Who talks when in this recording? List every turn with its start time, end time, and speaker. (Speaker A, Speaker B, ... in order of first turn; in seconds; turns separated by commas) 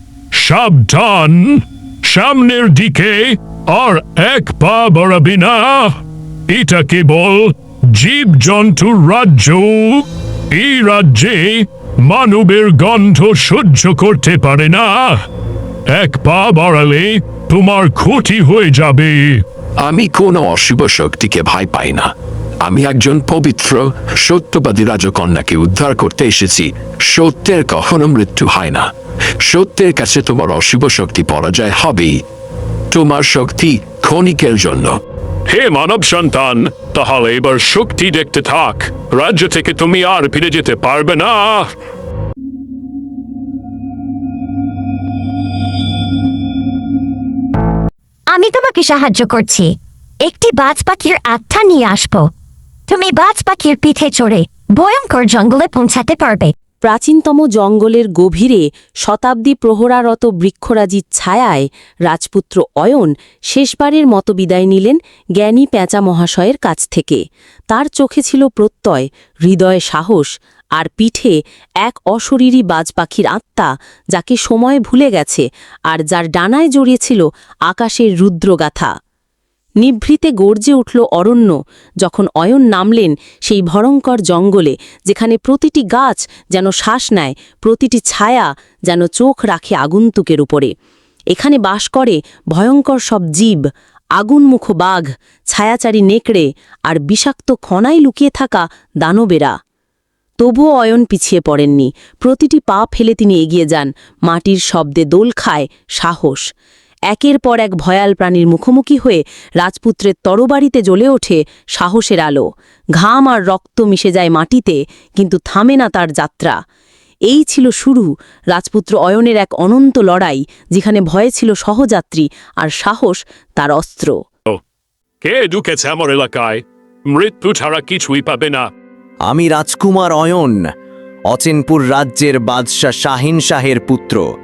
Speaker A: 0.3-6.0, Speaker A: 6.5-15.2, Speaker A: 15.9-19.4, Speaker B: 19.8-22.1, Speaker B: 22.6-28.9, Speaker B: 29.4-32.2, Speaker B: 32.9-35.0, Speaker A: 35.5-41.7, Speaker C: 48.3-52.3, Speaker C: 52.9-56.5, Speaker D: 56.8-78.9, Speaker D: 79.8-90.7, Speaker D: 91.3-93.6, Speaker D: 94.2-99.5, Speaker D: 100.4-106.4, Speaker D: 107.1-112.5, Speaker D: 113.0-116.6, Speaker D: 117.3-124.1, Speaker A: 125.2-128.7, Speaker E: 129.3-130.6, Speaker E: 131.3-134.2